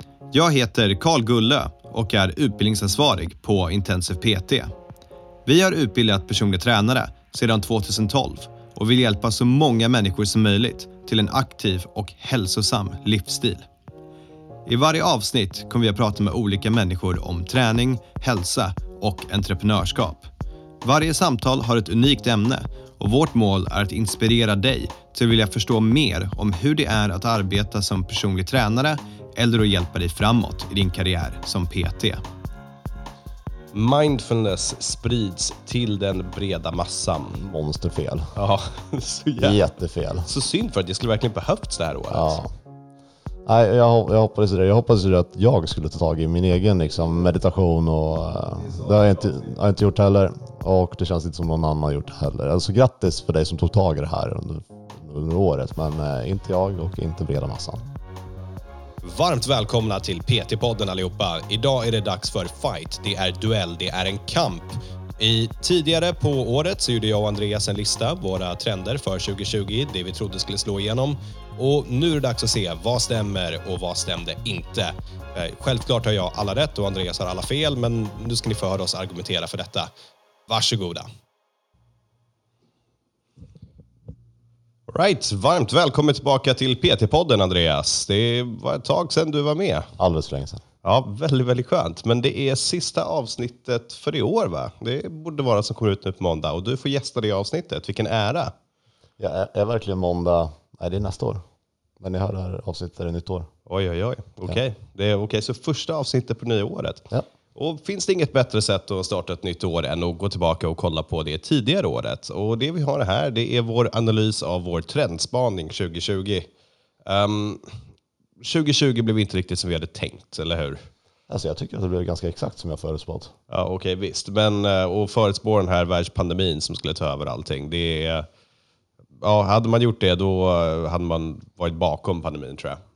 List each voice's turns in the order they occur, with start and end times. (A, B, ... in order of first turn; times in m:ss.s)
0:00.3-0:04.7 A
0:05.4-0:13.6 A
0:14.6-0:20.3 A
0:20.8-0:32.2 A
0:33.7-0:37.4 B
0:37.3-0:38.3 C
0:38.4-0:39.6 B
0:39.4-0:40.3 C
0:40.2-0:42.4 B
0:42.1-0:42.5 C
0:43.4-0:57.8 C
0:59.0-1:19.9 B
1:20.5-1:21.1 B
1:24.9-1:29.9 B
1:30.0-1:30.6 C
1:30.8-1:38.5 B
1:39.2-1:41.4 C
1:42.0-1:43.5 C
1:43.7-1:56.5 B
1:57.0-1:57.8 B
1:58.4-2:00.8 B
2:01.3-2:03.3 C
2:03.5-2:08.3 B
2:09.2-2:12.8 B